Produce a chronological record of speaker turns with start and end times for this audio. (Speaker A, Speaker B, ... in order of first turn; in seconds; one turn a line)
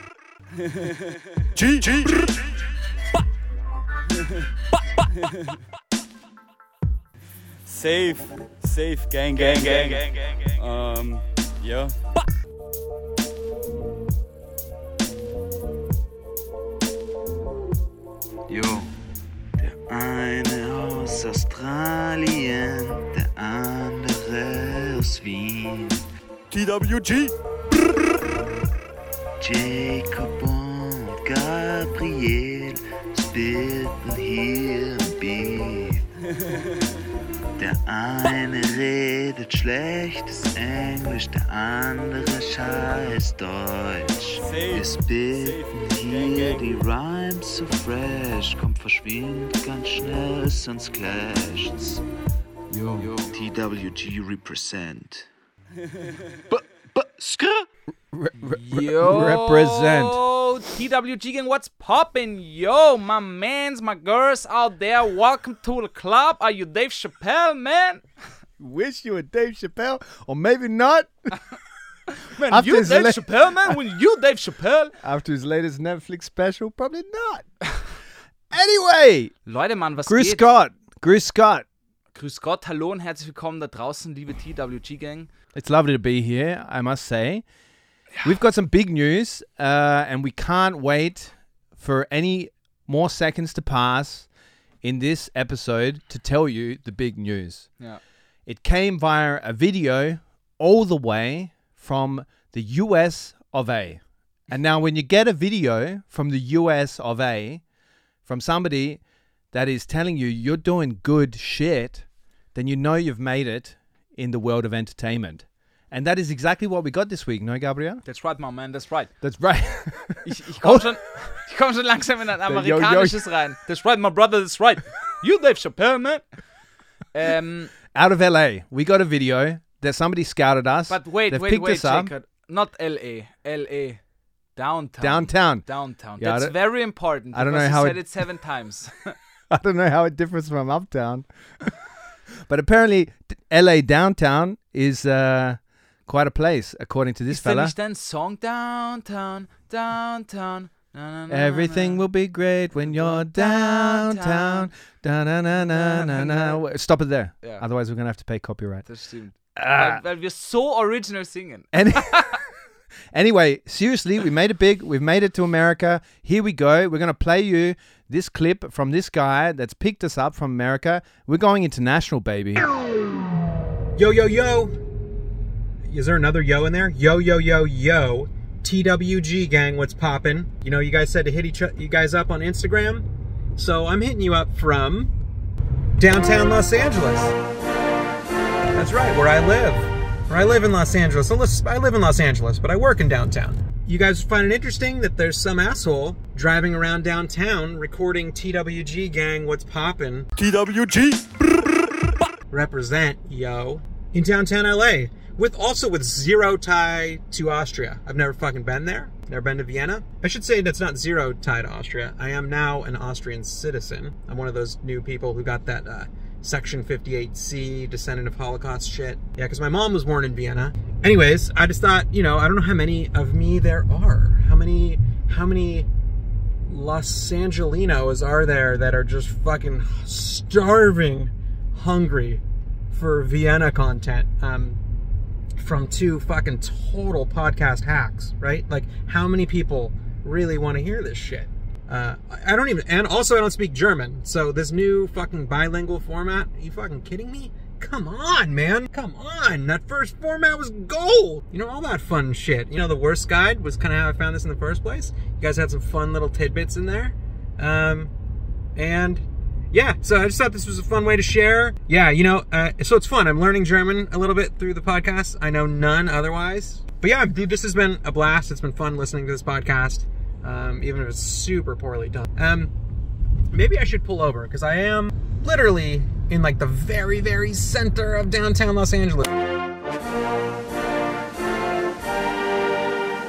Speaker A: 0.5-2.6
Speaker A: 4.1-4.5
Speaker A: 5.0-5.6
Speaker A: 7.6-11.9
Speaker B: 9.4-10.1
Speaker C: 18.5-18.9
Speaker C: 19.6-26.0
Speaker A: 26.5-27.3
Speaker C: 29.4-36.1
Speaker A: 36.2-37.0
Speaker C: 37.6-52.0
Speaker A: 44.4-46.7
Speaker C: 52.8-55.3
Speaker A: 53.0-53.4
Speaker A: 55.7-56.6
Speaker C: 56.5-57.6
Speaker B: 58.1-60.2
Speaker D: 58.4-68.0
Speaker B: 68.6-71.4
Speaker D: 72.3-74.9
Speaker B: 72.4-73.8
Speaker B: 75.0-77.5
Speaker B: 78.5-79.3
Speaker D: 79.5-80.4
Speaker B: 80.0-81.7
Speaker D: 82.1-85.3
Speaker B: 85.5-87.4
Speaker B: 88.2-94.3
Speaker B: 94.8-97.7
Speaker B: 98.5-107.6
Speaker B: 108.2-109.0
Speaker B: 109.5-118.0
Speaker D: 118.0-119.1
Speaker B: 119.2-120.9
Speaker D: 120.2-126.2
Speaker B: 122.4-123.2
Speaker D: 127.1-127.7
Speaker B: 127.9-132.1
Speaker D: 130.9-134.0
Speaker D: 134.6-139.2
Speaker B: 135.0-136.5
Speaker B: 137.3-138.1
Speaker B: 139.5-141.7
Speaker B: 142.4-147.7
Speaker D: 147.3-152.0
Speaker B: 151.3-158.8
Speaker D: 152.8-154.7
Speaker D: 155.6-156.6
Speaker D: 158.9-162.4
Speaker B: 159.6-160.0
Speaker B: 161.7-162.4
Speaker B: 163.1-172.7
Speaker E: 173.9-174.8
Speaker E: 175.8-185.1
Speaker E: 186.0-187.3
Speaker E: 188.7-200.3
Speaker A: 200.3-201.9
Speaker E: 202.5-225.9
Speaker E: 226.7-234.8
Speaker E: 235.6-258.1
Speaker E: 258.8-272.7
Speaker E: 273.5-279.3